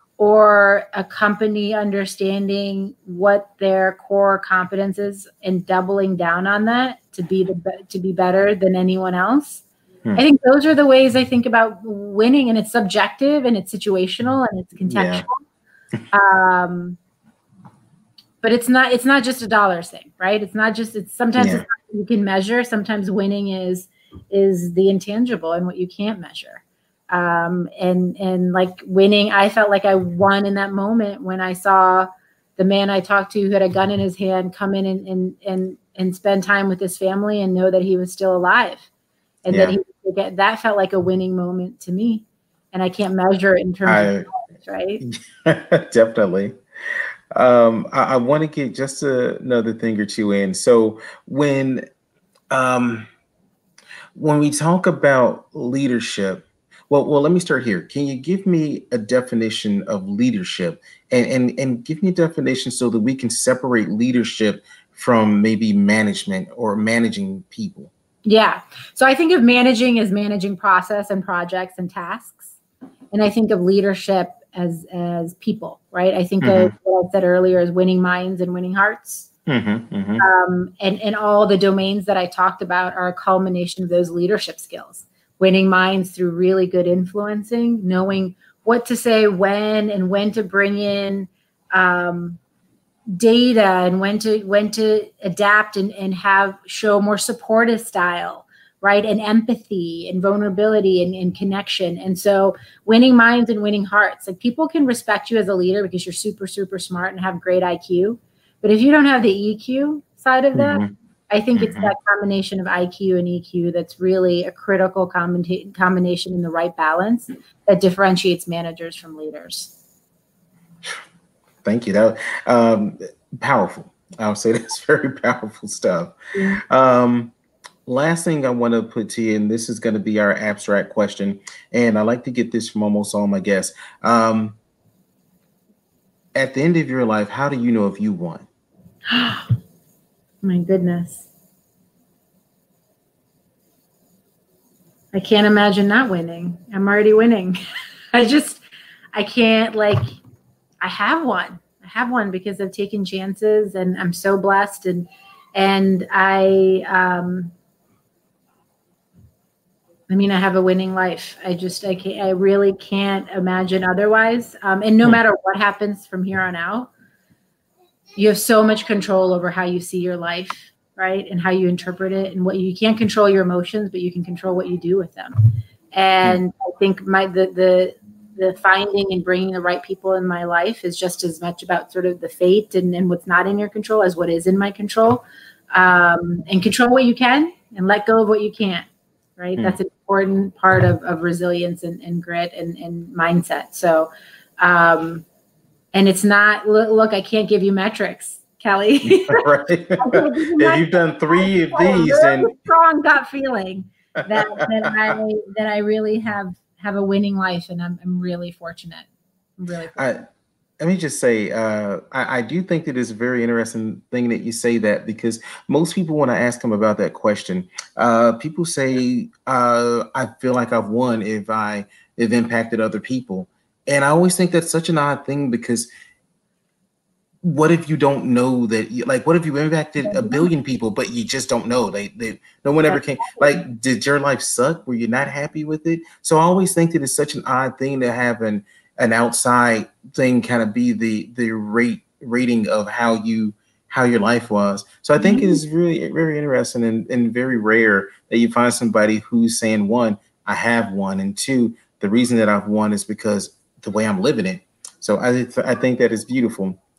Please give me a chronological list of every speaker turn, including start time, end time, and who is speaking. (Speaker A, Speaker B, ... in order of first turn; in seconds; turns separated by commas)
Speaker A: 0.2-9.6, Speaker A: 10.1-15.4, Speaker B: 14.9-15.2, Speaker A: 16.1-17.0, Speaker A: 18.4-38.9, Speaker B: 21.4-21.6, Speaker A: 39.4-45.0, Speaker B: 39.5-39.8, Speaker B: 43.9-44.3, Speaker B: 45.0-46.6, Speaker B: 47.3-51.9, Speaker B: 52.5-53.1, Speaker B: 54.1-67.9, Speaker A: 68.2-72.5, Speaker A: 73.1-79.3, Speaker B: 76.4-76.7, Speaker B: 79.5-80.2, Speaker A: 80.2-92.4, Speaker A: 93.1-119.7, Speaker B: 110.5-110.9, Speaker B: 111.5-111.9, Speaker B: 121.6-126.2, Speaker A: 126.3-126.6, Speaker B: 126.7-127.3, Speaker B: 127.8-134.6, Speaker B: 136.3-138.5, Speaker A: 139.1-139.5, Speaker A: 140.4-141.2, Speaker A: 145.1-147.6, Speaker A: 148.1-150.2, Speaker A: 150.8-157.5, Speaker A: 160.1-166.9, Speaker A: 168.2-188.9, Speaker A: 189.4-195.2, Speaker A: 195.9-199.4, Speaker B: 199.0-202.5, Speaker A: 200.0-209.1, Speaker B: 204.2-204.9, Speaker A: 209.6-210.0, Speaker B: 209.9-210.2, Speaker B: 210.8-225.9, Speaker B: 227.4-256.8, Speaker A: 230.0-230.5, Speaker A: 232.8-233.5, Speaker A: 245.2-245.6